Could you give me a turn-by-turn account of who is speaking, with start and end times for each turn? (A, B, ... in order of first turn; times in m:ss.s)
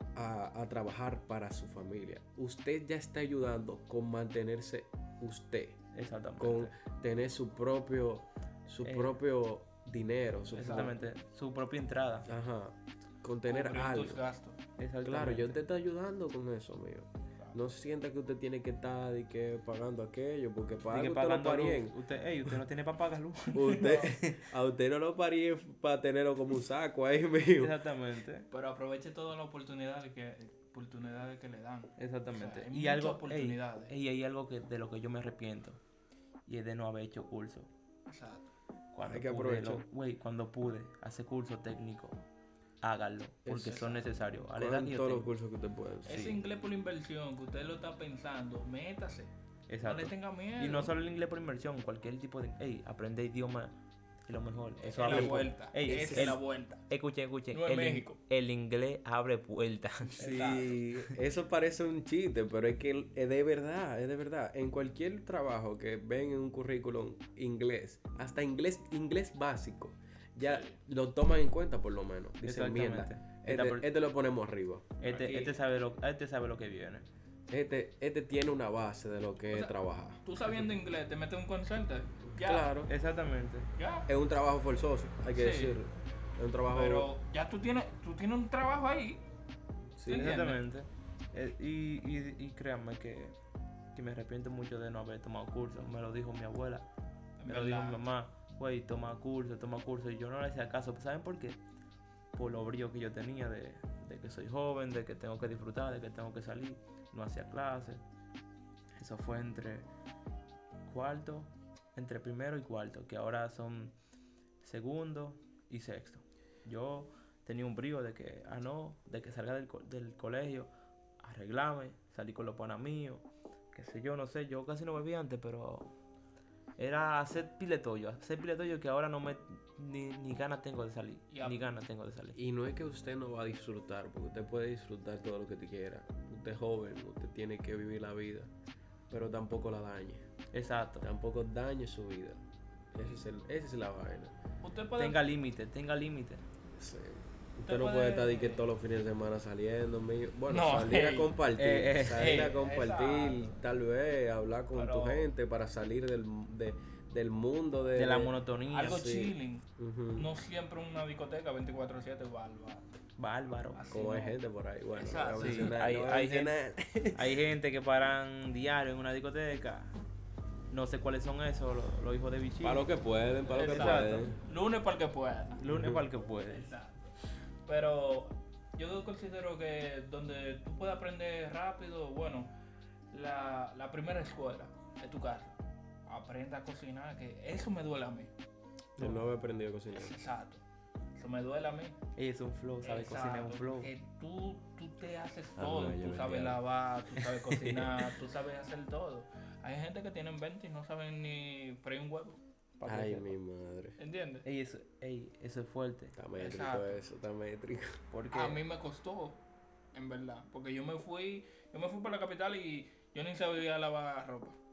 0:00.2-0:05.8 A
0:05.9-0:06.7 B
0:06.4-0:11.0 A
0:08.8-0:09.1 B
0:10.5-0:12.3 B
0:10.6-0:10.9 C
0:12.3-0:14.2 A
0:13.5-0:14.6 C
0:14.8-0:15.6 B
0:15.0-0:22.6 A
0:20.9-0:24.4 B
0:23.5-0:27.8 A
0:23.7-0:24.1 C
0:27.6-0:28.5 B
0:28.5-0:33.9 C
0:32.0-0:35.8 B
0:36.5-0:37.7 B
0:38.1-0:38.5 C
0:38.9-0:42.2 B
0:39.0-0:39.8 A
0:42.8-0:45.3 B
0:43.5-0:46.4 A
0:43.8-0:44.0 C
0:46.0-0:49.3 C
0:49.7-1:01.1 B
0:49.8-0:50.9 C
0:54.8-0:56.9 C
0:55.0-0:56.4 A
0:57.5-0:58.2 C
1:00.2-1:00.8 C
1:00.2-1:14.9 A
1:10.4-1:10.8 C
1:12.4-1:13.9 B
1:15.0-1:17.1 B
1:15.0-1:15.6 C
1:17.5-1:20.6 A
1:19.5-1:22.7 C
1:22.4-1:22.9 A
1:22.9-1:23.7 B
1:23.8-1:24.1 C
1:24.1-1:27.1 A
1:25.3-1:25.8 C
1:26.7-1:29.2 C
1:30.0-1:30.4 A
1:30.1-1:30.6 C
1:30.1-1:33.4 B
1:33.9-1:36.9 B
1:37.4-1:38.0 C
1:37.5-1:41.6 B
1:42.3-1:48.0 B
1:49.0-1:49.9 B
1:50.8-1:54.0 B
1:54.6-2:05.9 B
2:06.8-2:12.4 B
2:11.3-2:11.6 C
2:12.4-2:18.5 A
2:19.1-2:20.2 A
2:20.5-2:21.0 B
2:21.0-2:22.4 A
2:22.9-2:24.3 A
2:24.6-2:25.2 C
2:25.0-2:26.4 B
2:26.8-2:38.4 A
2:27.7-2:28.7 C
2:30.5-2:31.3 C
2:31.6-2:32.4 B
2:32.1-2:33.6 C
2:34.7-2:35.3 C
2:38.0-2:39.1 B
2:38.7-2:43.0 C
2:38.9-2:40.3 A
2:43.2-2:43.8 B
2:43.8-2:44.4 C
2:43.9-2:47.4 A
2:45.0-2:45.8 C
2:45.4-2:46.6 B
2:47.1-2:50.0 B
2:50.7-2:52.8 B
2:52.6-2:54.4 A
2:53.5-2:55.6 C
2:53.6-2:54.3 B
2:55.6-2:56.7 B
2:55.6-2:56.1 A
2:56.4-2:57.1 C
2:57.6-3:02.5 C
3:03.1-3:08.3 C
3:09.0-3:10.2 A
3:09.9-3:10.6 C
3:11.2-3:12.0 C
3:12.2-3:13.9 B
3:12.8-3:22.4 C
3:15.6-3:16.6 A
3:17.2-3:18.0 B
3:22.8-3:23.4 B
3:22.9-3:24.0 A
3:24.0-3:24.4 C
3:24.4-3:26.2 B
3:26.2-3:28.0 A
3:26.4-3:27.0 C
3:28.1-3:28.6 B
3:28.3-3:29.4 C
3:29.9-3:34.6 C